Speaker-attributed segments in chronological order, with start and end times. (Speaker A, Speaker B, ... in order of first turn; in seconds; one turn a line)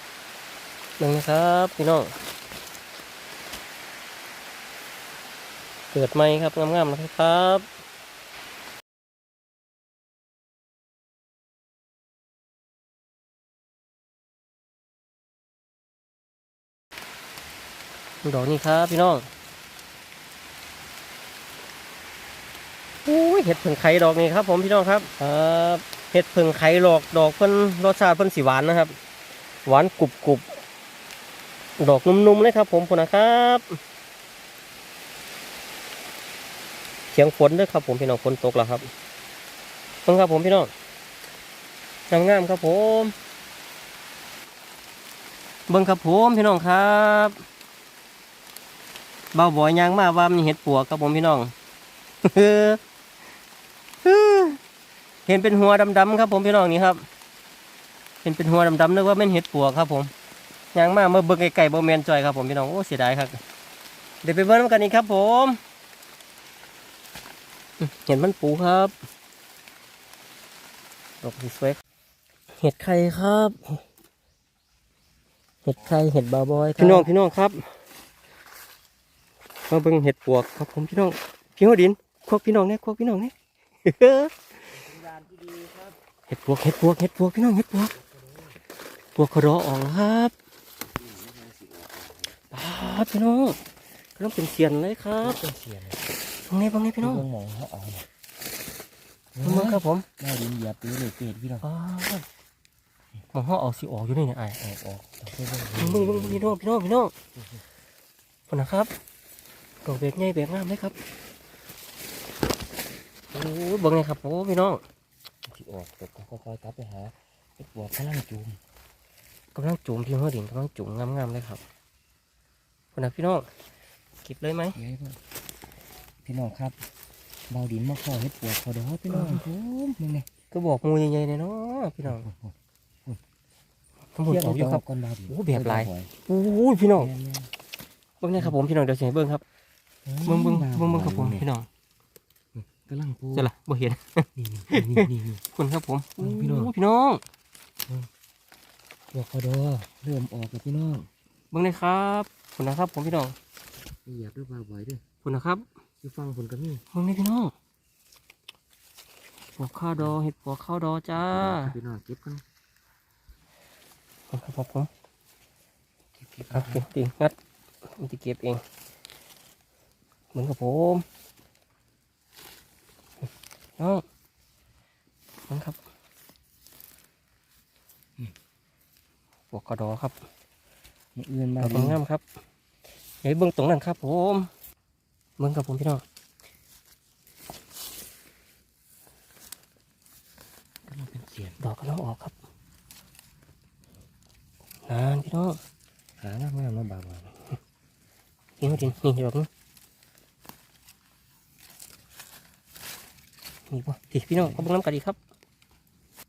Speaker A: 1.0-2.1
Speaker A: 5.9-7.7
Speaker A: 18.2-19.3
Speaker A: 23.0-28.9
Speaker A: 29.6-30.4
Speaker A: 31.8-33.8
Speaker A: 37.1-38.9
Speaker A: 40.0-40.7
Speaker A: 42.1-43.1
Speaker A: 45.7-47.4
Speaker A: 49.3-51.5
Speaker A: 52.2-52.8
Speaker A: 54.0-54.6
Speaker A: 55.2-57.0
Speaker A: 58.2-60.1
Speaker A: 60.7-63.4
Speaker A: 64.2-65.6
Speaker A: 67.8-68.9
Speaker A: 71.2-71.8
Speaker A: 72.6-73.8
Speaker A: 75.7-77.7
Speaker B: 76.5-77.1
Speaker A: 79.7-83.3
Speaker A: 83.8-84.3
Speaker B: 84.9-85.9
Speaker A: 86.3-87.9
Speaker A: 89.2-90.3
Speaker B: 90.8-92.3
Speaker A: 92.5-93.6
Speaker A: 94.2-95.4
Speaker B: 95.2-96.0
Speaker A: 96.5-97.2
Speaker B: 97.0-98.1
Speaker B: 99.3-101.7
Speaker A: 99.4-100.0
Speaker A: 101.6-102.2
Speaker A: 103.3-104.6
Speaker B: 104.6-106.5
Speaker A: 105.8-107.1
Speaker A: 108.5-108.9
Speaker A: 109.8-110.9
Speaker A: 113.3-114.8
Speaker B: 115.5-118.6
Speaker A: 119.5-121.6
Speaker A: 122.9-123.5
Speaker A: 124.2-124.8
Speaker B: 124.7-125.2
Speaker B: 126.2-126.9
Speaker B: 127.5-130.3
Speaker A: 129.1-129.4
Speaker A: 130.5-132.2
Speaker B: 132.1-132.5
Speaker A: 134.1-137.1
Speaker B: 134.2-136.1
Speaker B: 136.9-137.5
Speaker A: 138.2-139.4
Speaker B: 140.0-141.5
Speaker A: 140.2-141.7
Speaker B: 142.5-143.5
Speaker A: 143.3-147.2
Speaker B: 144.3-145.4
Speaker B: 146.2-146.7
Speaker B: 149.1-151.1
Speaker A: 151.5-153.3
Speaker B: 154.0-155.0
Speaker A: 155.2-155.7
Speaker B: 156.0-156.8
Speaker A: 156.9-157.5
Speaker A: 159.6-161.8
Speaker B: 161.1-162.4
Speaker A: 164.3-164.9
Speaker B: 166.1-166.9
Speaker A: 166.5-167.3
Speaker A: 167.9-168.6
Speaker A: 170.3-171.0
Speaker A: 173.8-174.0
Speaker A: 175.5-175.8
Speaker A: 179.5-180.2
Speaker B: 181.2-182.0
Speaker A: 181.6-182.2
Speaker A: 183.2-184.5
Speaker A: 185.4-186.0
Speaker B: 190.8-191.6
Speaker A: 191.6-192.3
Speaker A: 194.9-195.6
Speaker B: 196.2-197.5
Speaker A: 198.6-199.5
Speaker A: 203.7-205.2
Speaker B: 204.4-204.7